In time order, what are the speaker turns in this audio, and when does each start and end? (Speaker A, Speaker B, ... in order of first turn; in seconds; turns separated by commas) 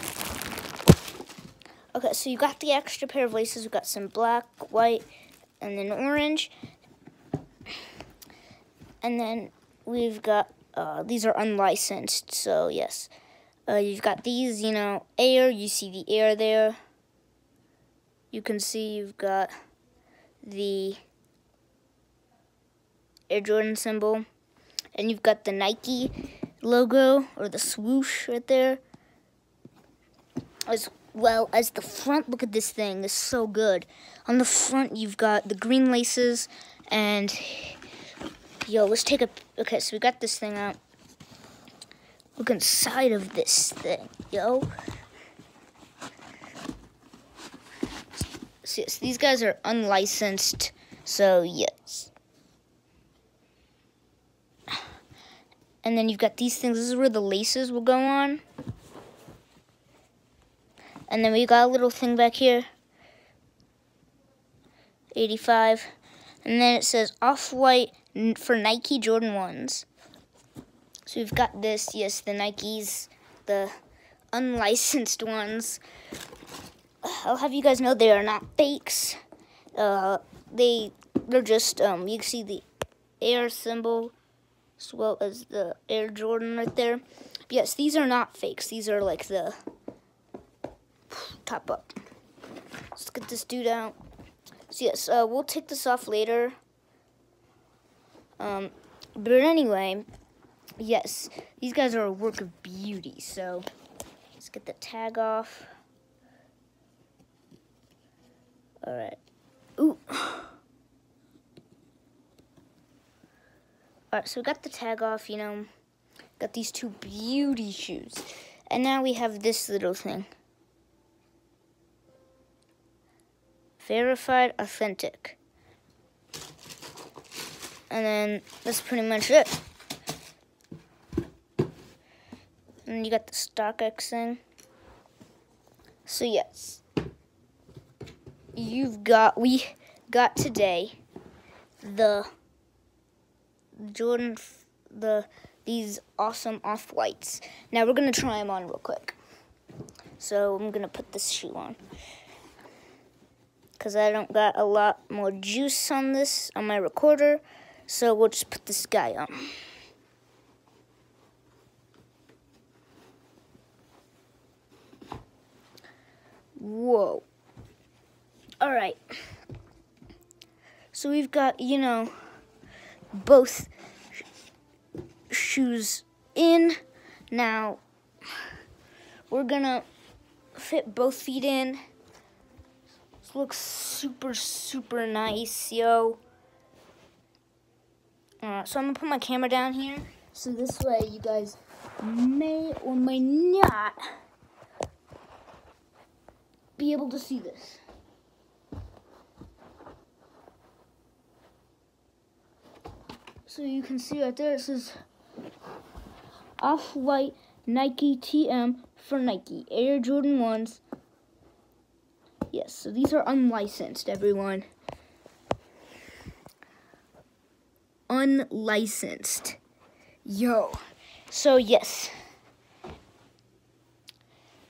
Speaker A: 1.9-5.1, Speaker A: 5.6-6.5, Speaker A: 9.0-13.1, Speaker A: 13.7-16.8, Speaker A: 18.3-19.5, Speaker A: 20.4-21.0, Speaker A: 23.3-24.2, Speaker A: 24.9-28.8, Speaker A: 30.7-37.8, Speaker A: 38.6-40.8, Speaker A: 42.4-44.7, Speaker A: 48.6-52.1, Speaker A: 55.8-58.4, Speaker A: 61.1-62.7, Speaker A: 65.1-65.9, Speaker A: 66.4-69.9, Speaker A: 71.1-73.7, Speaker A: 74.3-75.8, Speaker A: 77.0-79.2, Speaker A: 79.8-82.7, Speaker A: 83.2-84.1, Speaker A: 84.8-89.6, Speaker A: 91.1-92.0, Speaker A: 92.9-94.0, Speaker A: 94.7-96.6, Speaker A: 98.4-100.1, Speaker A: 100.8-103.7, Speaker A: 104.4-105.7, Speaker A: 108.8-109.2, Speaker A: 109.8-110.6, Speaker A: 114.1-115.7, Speaker A: 116.4-120.3, Speaker A: 123.8-125.4, Speaker A: 127.9-129.6, Speaker A: 132.9-134.4, Speaker A: 136.1-136.8, Speaker A: 138.6-141.0, Speaker A: 141.8-142.3, Speaker A: 143.8-149.2, Speaker A: 150.2-151.8, Speaker A: 153.8-159.5, Speaker A: 166.6-167.2, Speaker A: 168.6-169.0, Speaker A: 170.9-172.1, Speaker A: 173.1-173.7, Speaker A: 175.3-176.8, Speaker A: 177.3-177.8, Speaker A: 179.3-179.9, Speaker A: 180.6-181.8, Speaker A: 183.2-186.2, Speaker A: 188.4-194.0, Speaker A: 196.8-197.8, Speaker A: 203.4-204.9, Speaker A: 206.6-210.8, Speaker A: 212.5-214.7, Speaker A: 218.1-219.6, Speaker A: 220.3-220.8, Speaker A: 221.3-222.1